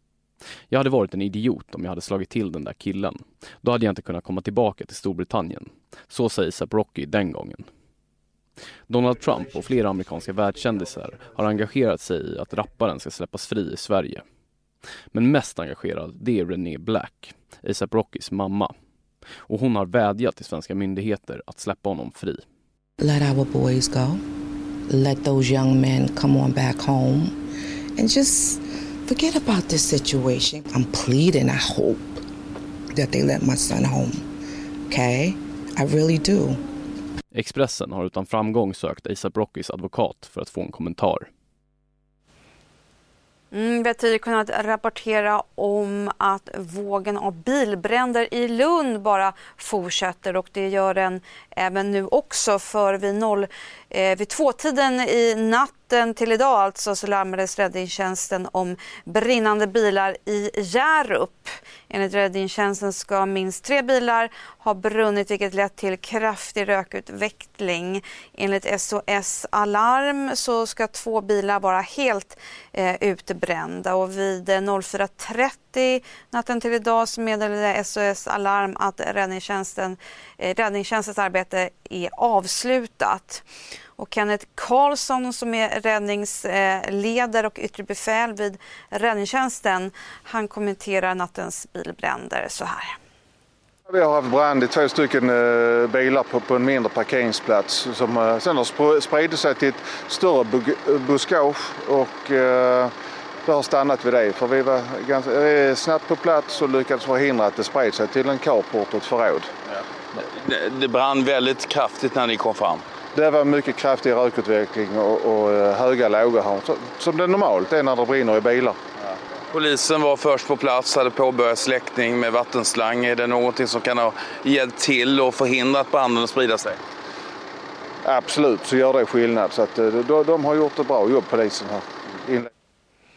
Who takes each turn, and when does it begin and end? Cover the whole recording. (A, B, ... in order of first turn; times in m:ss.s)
0:00.7-0:07.6 A
0:08.9-0:14.2 A
0:15.1-0:18.7 A
0:19.5-0:22.4 A
0:23.0-0:24.2 B
0:24.9-0:27.3 B
0:28.0-0:32.2 B
0:32.9-0:34.2 B
0:34.9-0:36.6 B
0:37.3-0:41.3 A
0:43.5-1:23.4 C
1:24.0-1:33.0 C
1:33.9-1:42.9 D
1:43.4-1:49.5 D
1:50.2-1:52.8 E
1:53.1-1:58.8 D
1:59.5-2:06.8 E
2:08.0-2:12.5 D